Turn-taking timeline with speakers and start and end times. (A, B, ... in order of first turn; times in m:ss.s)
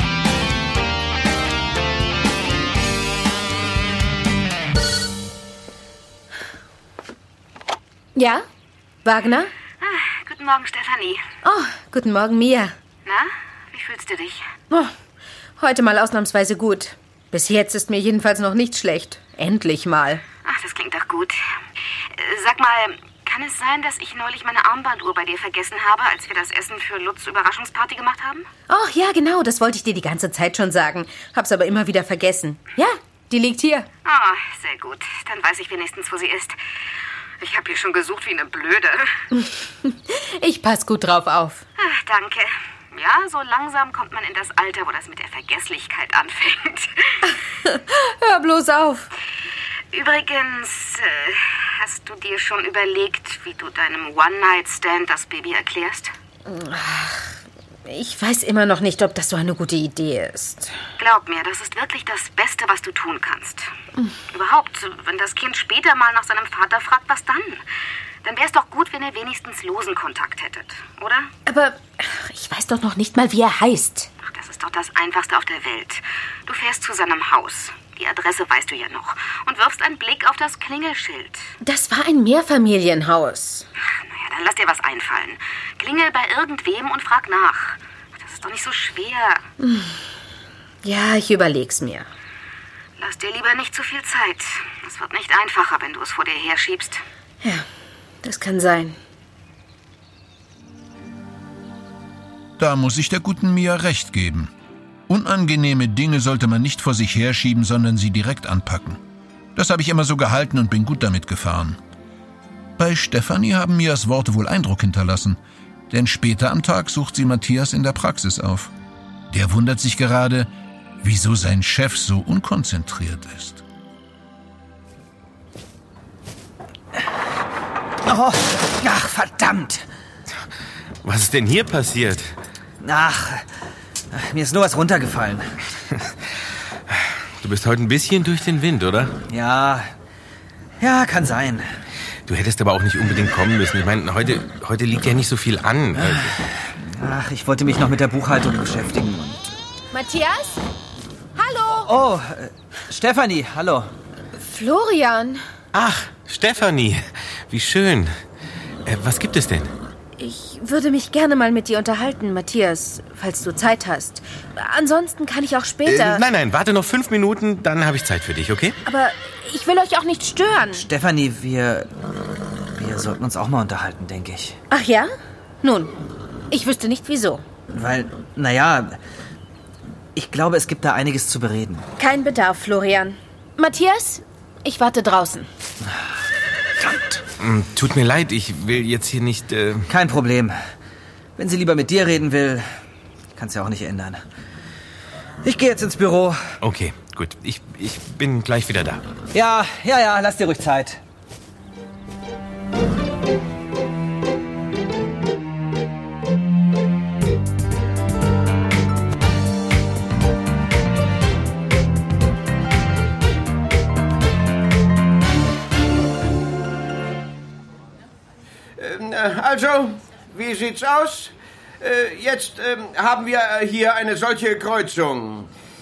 0:08.2-0:08.4 A
0:09.0-0:09.5 A
0:09.8-0:11.2 B
0:11.4-0:12.7 A
0:13.1-0:14.4 B
0:15.6-0:20.2 A
0:20.4-0:21.4 B
0:22.2-0:28.5 B
0:28.7-0:33.9 A
0:34.0-0:36.6 B
0:37.4-0:39.2 B
0:40.1-0:41.6 A
0:41.8-0:47.2 B
0:47.9-0:49.1 A
0:49.9-0:56.1 B
0:56.5-1:00.7 A
1:01.0-1:03.7 B
1:04.3-1:07.6 B
1:08.2-1:11.3 B
1:11.5-1:14.1 A
1:14.3-1:21.4 B
1:21.6-1:23.7 A
1:24.1-1:29.4 B
1:29.6-1:30.0 A
1:30.8-1:32.1 A
1:33.0-1:37.0 B
1:38.2-1:39.0 A
1:42.6-1:44.5 C
1:45.1-1:49.0 C
1:49.6-1:51.8 C
1:52.8-1:55.4 C
1:55.9-1:58.7 C
1:59.3-2:00.5 C
2:01.0-2:03.6 C
2:08.1-2:09.8 D
2:11.0-2:12.3 E
2:12.8-2:13.4 D
2:14.1-2:15.6 D
2:16.9-2:19.2 E
2:19.3-2:19.9 D
2:20.8-2:21.7 D
2:22.3-2:26.4 E
2:26.0-2:26.3 D
2:27.0-2:29.4 D
2:29.9-2:30.6 A
2:31.4-2:31.9 A
2:31.9-2:33.9 D
2:34.4-2:35.4 A
2:35.7-2:38.1 E
2:38.9-2:39.7 E
2:40.2-2:46.2 A
2:45.8-2:48.8 E
2:48.8-2:50.9 A
2:50.7-2:51.9 D
2:52.8-2:54.6 D
2:54.7-2:55.1 A
2:55.6-2:55.9 A
2:56.5-2:57.4 A
2:57.7-2:59.0 D
3:00.2-3:01.8 D
3:02.0-3:05.5 A
3:07.4-3:09.8 E
3:09.9-3:10.6 D
3:11.4-3:12.7 D
3:13.4-3:14.2 D
3:15.4-3:16.4 D
3:16.6-3:19.0 E
3:19.3-3:21.0 D
3:38.8-3:45.5 F